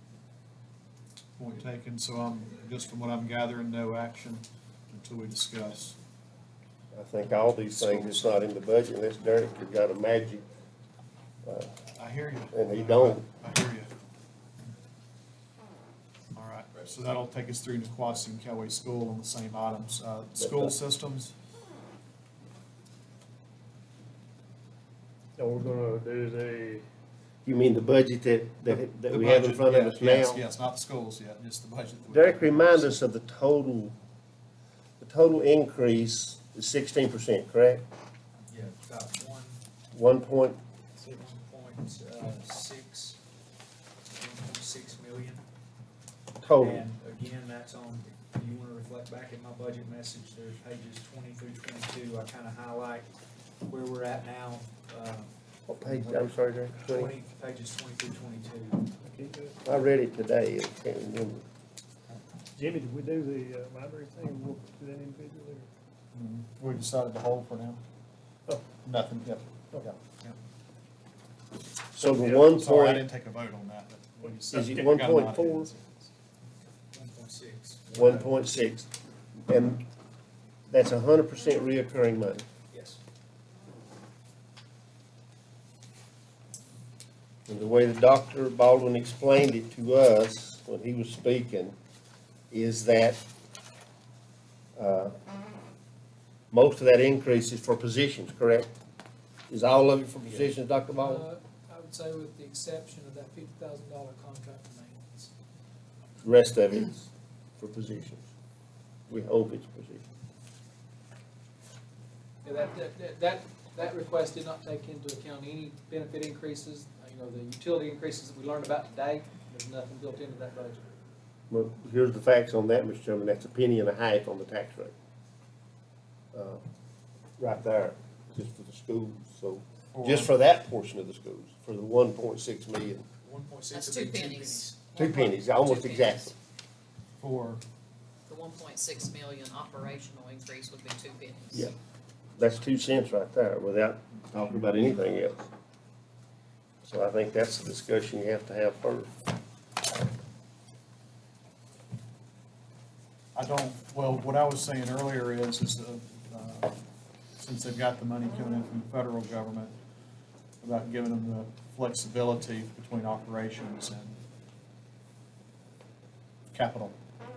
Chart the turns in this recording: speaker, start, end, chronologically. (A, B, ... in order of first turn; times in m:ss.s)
0:01.4-0:06.0 A
0:06.9-0:10.4 B
0:07.3-0:08.3 A
0:11.5-0:11.7 B
0:12.0-0:13.9 A
0:12.5-0:13.3 B
0:16.4-0:21.3 A
0:20.4-0:20.8 B
0:25.4-0:26.8 C
0:27.4-0:30.4 B
0:28.7-0:33.0 A
0:32.1-0:34.0 B
0:35.0-0:37.8 B
0:38.5-0:39.6 D
0:39.9-0:40.6 B
0:41.0-0:43.2 D
0:44.2-0:45.4 D
0:46.4-0:46.8 B
0:46.6-0:53.1 D
0:53.7-0:55.3 D
0:55.7-0:57.1 B
0:55.8-0:56.3 D
0:56.8-0:58.9 D
0:59.0-0:59.6 C
0:59.6-1:01.4 B
1:02.6-1:05.7 C
1:06.1-1:07.8 A
1:08.8-1:10.4 A
1:11.9-1:13.0 B
1:12.0-1:16.1 A
1:14.5-1:15.7 B
1:16.9-1:18.3 D
1:17.9-1:18.9 B
1:19.5-1:19.8 B
1:20.7-1:22.5 B
1:22.7-1:23.0 D
1:27.5-1:31.8 B
1:32.5-1:33.2 B
1:34.8-1:35.2 B
1:36.5-1:38.7 B
1:39.5-1:41.3 B
1:41.0-1:45.3 E
1:46.2-1:48.3 B
1:49.1-1:50.0 B
1:52.4-2:00.8 E
2:01.5-2:04.9 B
2:06.3-2:06.6 B
2:07.4-2:13.1 B
2:09.9-2:10.3 A
2:13.2-2:14.8 D
2:13.7-2:16.1 F
2:15.0-2:16.3 B
2:17.2-2:17.6 A
2:18.3-2:21.7 F
2:22.4-2:25.5 B
2:26.8-2:29.1 B
2:33.4-2:36.8 A
2:37.4-2:39.8 A
2:40.6-2:44.2 A
2:46.5-2:47.0 A